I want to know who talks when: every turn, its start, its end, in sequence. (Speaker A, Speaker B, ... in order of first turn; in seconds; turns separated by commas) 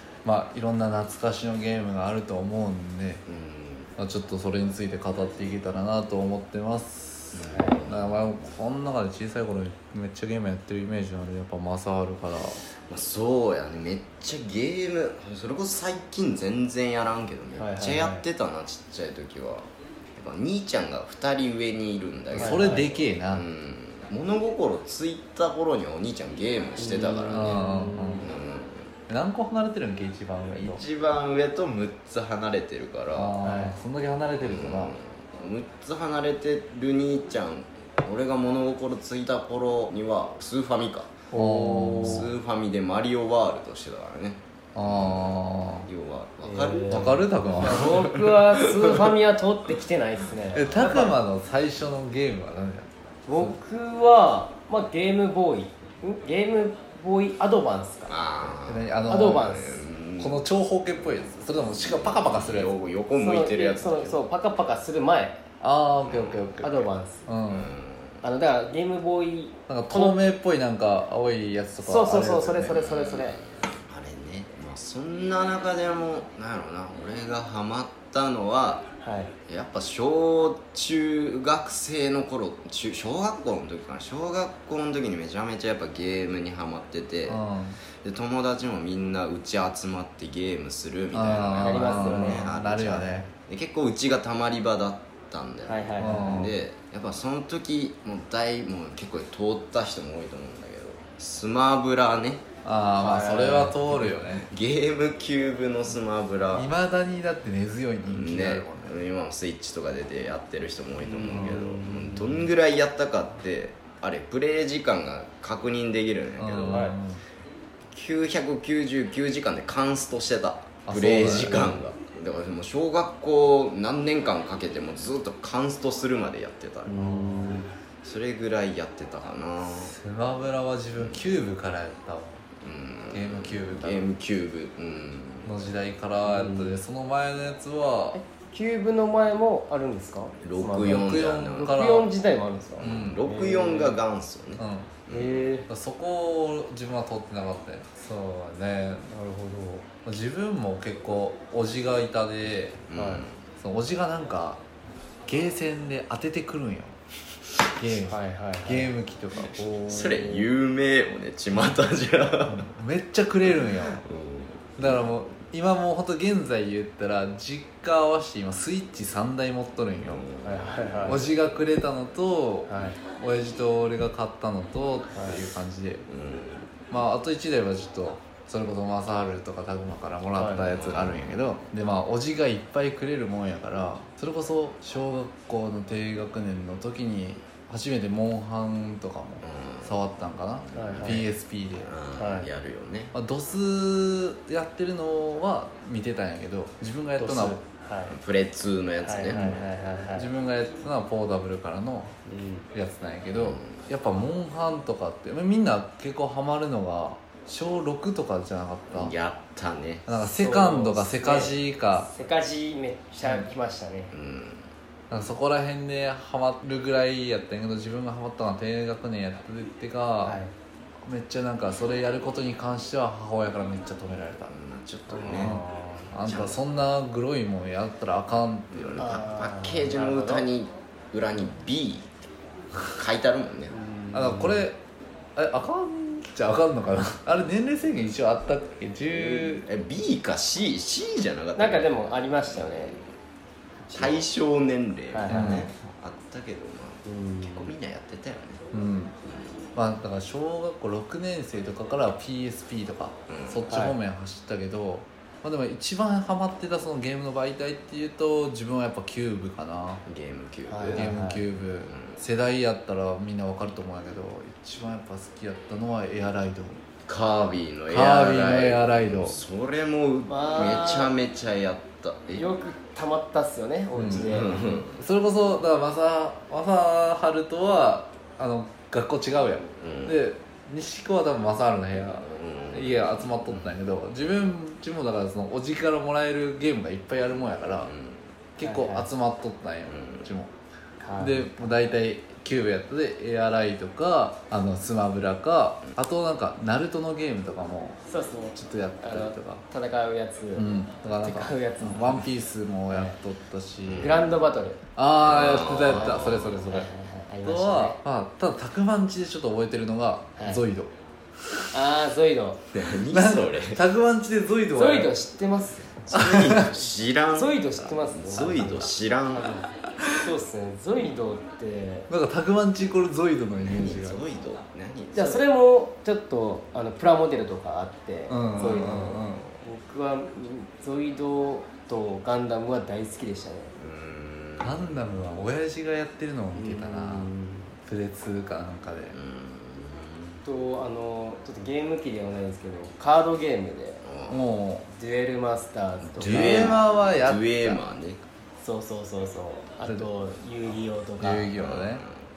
Speaker A: 0.2-3.2, Speaker B: 3.3-3.9, Speaker A: 4.0-12.6, Speaker B: 7.3-8.3, Speaker C: 7.5-7.9, Speaker B: 12.9-28.9, Speaker C: 17.5-18.2, Speaker A: 22.3-23.4, Speaker C: 22.3-22.9, Speaker C: 26.8-28.3, Speaker A: 27.3-28.3, Speaker A: 29.1-30.8, Speaker B: 30.5-33.4, Speaker A: 33.1-35.0, Speaker C: 33.4-33.8, Speaker B: 34.4-41.3, Speaker C: 41.3-42.3, Speaker A: 41.3-42.3, Speaker B: 42.0-49.1, Speaker A: 44.8-45.9, Speaker C: 46.4-51.2, Speaker A: 46.9-48.2, Speaker A: 50.5-53.5, Speaker C: 53.2-58.2, Speaker B: 58.1-60.4, Speaker A: 58.7-59.6, Speaker C: 59.0-59.9, Speaker A: 60.2-62.7, Speaker B: 61.6-64.2, Speaker C: 63.1-65.4, Speaker A: 65.6-67.7, Speaker B: 66.0-66.6, Speaker C: 66.6-67.2, Speaker B: 67.5-68.2, Speaker C: 68.2-70.3, Speaker A: 69.7-72.7, Speaker C: 71.8-73.4, Speaker B: 72.7-78.8, Speaker C: 79.0-79.3, Speaker B: 79.5-87.4, Speaker A: 87.3-87.8, Speaker B: 88.0-102.4, Speaker A: 91.1-93.3, Speaker C: 91.6-92.5, Speaker C: 95.7-96.5, Speaker A: 96.0-96.5, Speaker A: 102.6-104.5, Speaker C: 103.0-103.8, Speaker B: 103.9-106.7, Speaker A: 106.5-109.0, Speaker B: 108.0-116.9, Speaker C: 111.0-112.5, Speaker A: 116.4-117.2, Speaker C: 116.7-117.0, Speaker B: 117.9-127.0, Speaker A: 120.8-121.8, Speaker C: 126.8-127.7, Speaker A: 127.0-127.5, Speaker B: 128.0-129.9, Speaker A: 129.8-132.4, Speaker B: 131.0-131.3, Speaker B: 132.6-135.6, Speaker A: 133.1-134.1, Speaker A: 135.4-138.2, Speaker C: 136.2-136.8, Speaker C: 138.1-144.0, Speaker B: 140.4-141.8, Speaker A: 140.8-142.1, Speaker B: 142.8-145.5, Speaker A: 142.8-143.2, Speaker A: 144.6-145.0, Speaker C: 145.1-145.7, Speaker A: 145.7-149.1, Speaker C: 149.1-149.8, Speaker A: 150.0-152.8, Speaker B: 152.9-153.4, Speaker C: 152.9-153.2, Speaker A: 153.6-154.6, Speaker A: 155.2-156.9, Speaker A: 157.8-159.7, Speaker C: 158.1-158.9, Speaker C: 159.5-160.5, Speaker B: 159.8-162.7, Speaker A: 162.4-164.0, Speaker B: 163.5-165.0, Speaker A: 164.8-170.2, Speaker B: 170.0-171.2, Speaker C: 170.4-171.2, Speaker A: 171.1-176.0, Speaker C: 172.7-173.0, Speaker C: 175.1-175.4, Speaker B: 176.1-176.7, Speaker A: 176.9-191.9, Speaker C: 180.3-180.7, Speaker B: 180.6-181.3, Speaker B: 189.4-190.0, Speaker B: 190.6-191.3, Speaker C: 190.7-191.3, Speaker B: 191.8-193.1, Speaker C: 192.2-192.5, Speaker A: 193.1-197.6, Speaker C: 197.2-198.2, Speaker B: 198.1-199.7, Speaker C: 199.0-200.3, Speaker A: 199.3-199.6, Speaker A: 200.1-202.1, Speaker C: 202.2-202.7, Speaker A: 202.7-209.1, Speaker B: 203.3-203.8, Speaker B: 208.9-210.1, Speaker A: 210.1-212.1, Speaker C: 210.2-214.1, Speaker B: 214.1-215.3, Speaker A: 215.1-220.4, Speaker C: 220.2-220.5, Speaker A: 221.0-224.5, Speaker B: 224.5-225.6, Speaker C: 225.1-226.1, Speaker A: 225.3-229.2, Speaker B: 226.1-226.7, Speaker B: 228.7-232.1, Speaker C: 229.0-230.5, Speaker B: 232.8-233.7, Speaker C: 233.7-234.7, Speaker A: 234.1-234.8, Speaker A: 235.3-239.7, Speaker B: 239.1-243.1, Speaker C: 241.6-243.0, Speaker C: 243.8-244.3, Speaker B: 243.9-248.6, Speaker C: 245.1-245.7, Speaker A: 245.3-245.7, Speaker C: 247.0-247.7, Speaker A: 248.7-249.1, Speaker B: 249.2-249.7, Speaker A: 249.8-260.0, Speaker B: 253.3-253.7, Speaker C: 253.7-254.0, Speaker B: 260.1-261.1, Speaker C: 260.7-261.4, Speaker A: 260.9-266.8, Speaker B: 261.9-262.2, Speaker B: 267.1-272.6, Speaker A: 267.9-269.4, Speaker C: 270.2-271.1, Speaker C: 272.3-274.6, Speaker A: 273.9-287.9, Speaker B: 274.1-275.0, Speaker B: 279.7-280.2, Speaker B: 282.1-283.8, Speaker B: 287.6-288.2, Speaker A: 288.6-290.5, Speaker C: 288.6-289.1, Speaker B: 289.9-290.3, Speaker C: 291.0-291.7, Speaker A: 291.1-298.0, Speaker C: 298.1-302.3, Speaker A: 298.5-299.6, Speaker A: 300.5-304.3, Speaker C: 302.9-303.2, Speaker B: 303.8-304.3, Speaker C: 304.0-304.8, Speaker A: 304.9-306.9, Speaker B: 305.2-306.6, Speaker C: 305.9-308.0, Speaker A: 307.4-310.9, Speaker C: 310.4-310.6, Speaker C: 311.7-312.6, Speaker B: 312.7-313.8, Speaker A: 313.1-315.1, Speaker C: 314.7-315.9, Speaker B: 316.0-319.6, Speaker A: 316.1-316.7, Speaker C: 317.3-322.1, Speaker A: 322.1-324.2, Speaker B: 323.6-325.4, Speaker C: 325.1-333.7, Speaker A: 328.3-329.5, Speaker B: 333.8-335.0, Speaker A: 334.6-337.3, Speaker C: 336.5-337.7, Speaker A: 337.8-339.1, Speaker B: 339.1-340.4, Speaker C: 340.4-344.0, Speaker B: 344.0-344.4, Speaker A: 344.3-344.9, Speaker C: 344.9-346.8, Speaker B: 346.1-348.2, Speaker A: 346.2-347.8, Speaker C: 348.6-351.5, Speaker A: 351.2-352.0, Speaker B: 351.6-352.2